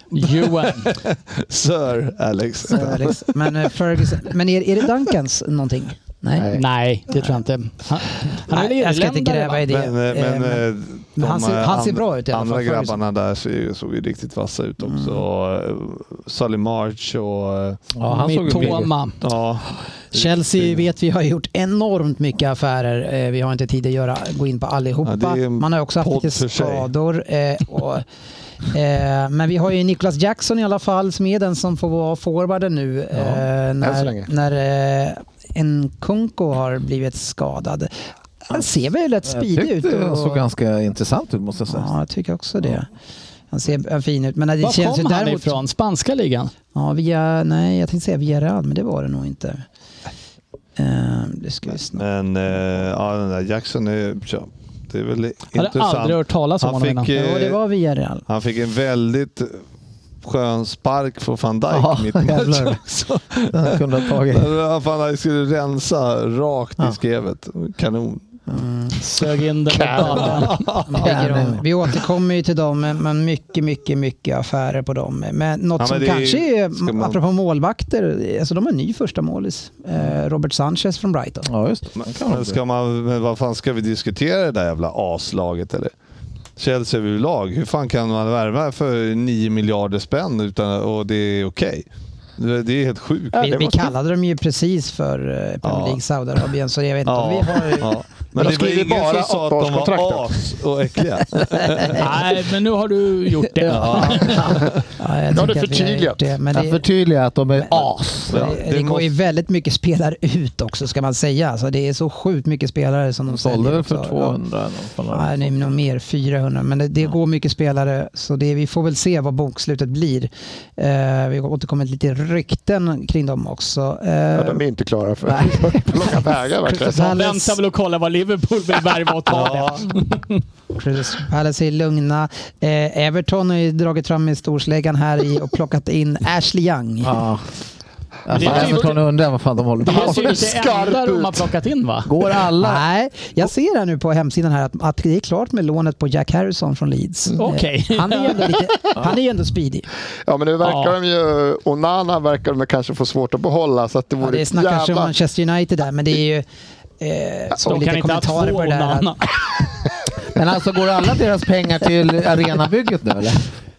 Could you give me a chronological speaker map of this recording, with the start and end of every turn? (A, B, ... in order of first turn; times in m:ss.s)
0:00.1-0:00.9 A
0:00.6-0:03.4 B
0:02.7-0:06.5 C
0:06.4-0:06.6 D
0:06.5-0:09.6 A
0:08.5-0:10.6 C
0:09.7-0:17.8 B
0:11.2-0:13.0 C
0:14.8-0:15.2 C
0:18.0-0:18.9 E
0:18.1-0:19.2 A
0:18.5-0:20.8 B
0:20.1-0:28.0 C
0:25.0-0:26.9 B
0:28.7-0:37.9 C
0:33.2-0:33.4 E
0:33.8-0:34.3 D
0:38.4-0:40.4 C
0:39.3-0:41.9 E
0:41.7-0:42.9 C
0:43.5-0:45.6 C
0:44.6-0:46.5 A
0:46.7-0:49.6 C
0:50.8-0:52.0 C
0:52.0-0:57.6 B
0:55.6-0:57.1 A
0:57.1-0:58.2 C
0:58.3-0:59.6 B
1:00.2-1:08.3 B
1:01.7-1:02.8 E
1:03.5-1:04.5 E
1:08.5-1:09.0 C
1:09.0-1:10.6 A
1:09.7-1:10.4 D
1:10.1-1:21.5 C
1:10.2-1:11.2 B
1:11.0-1:11.6 E
1:15.8-1:17.2 B
1:21.5-1:22.6 E
1:22.0-1:25.9 B
1:26.6-1:33.9 B
1:33.3-1:38.0 C
1:35.6-1:36.0 B
1:37.1-1:42.1 B
1:38.4-1:40.3 D
1:41.6-1:42.0 C
1:41.9-1:44.6 A
1:43.7-1:44.8 B
1:43.9-1:44.3 C
1:45.0-1:46.8 C
1:45.3-1:46.4 D
1:46.5-1:49.1 E
1:47.6-1:54.4 C
1:48.3-1:48.6 B
1:53.3-1:55.7 E
1:55.1-2:04.6 C
2:04.3-2:07.1 D
2:05.2-2:06.1 E
2:06.7-2:07.6 C
2:06.9-2:10.4 A
2:09.3-2:09.8 B
2:10.7-2:17.2 C
2:17.0-2:17.4 E
2:18.3-2:20.5 E
2:18.3-2:19.0 A
2:18.4-2:19.0 D
2:19.8-2:22.1 A
2:19.8-2:21.4 D
2:22.1-2:22.8 E
2:22.6-2:29.9 C
2:27.4-2:28.7 A
2:30.3-2:35.1 D
2:30.6-2:31.0 A
2:34.2-2:36.4 C
2:37.0-2:39.1 C
2:37.6-2:39.3 A
2:40.3-2:43.4 E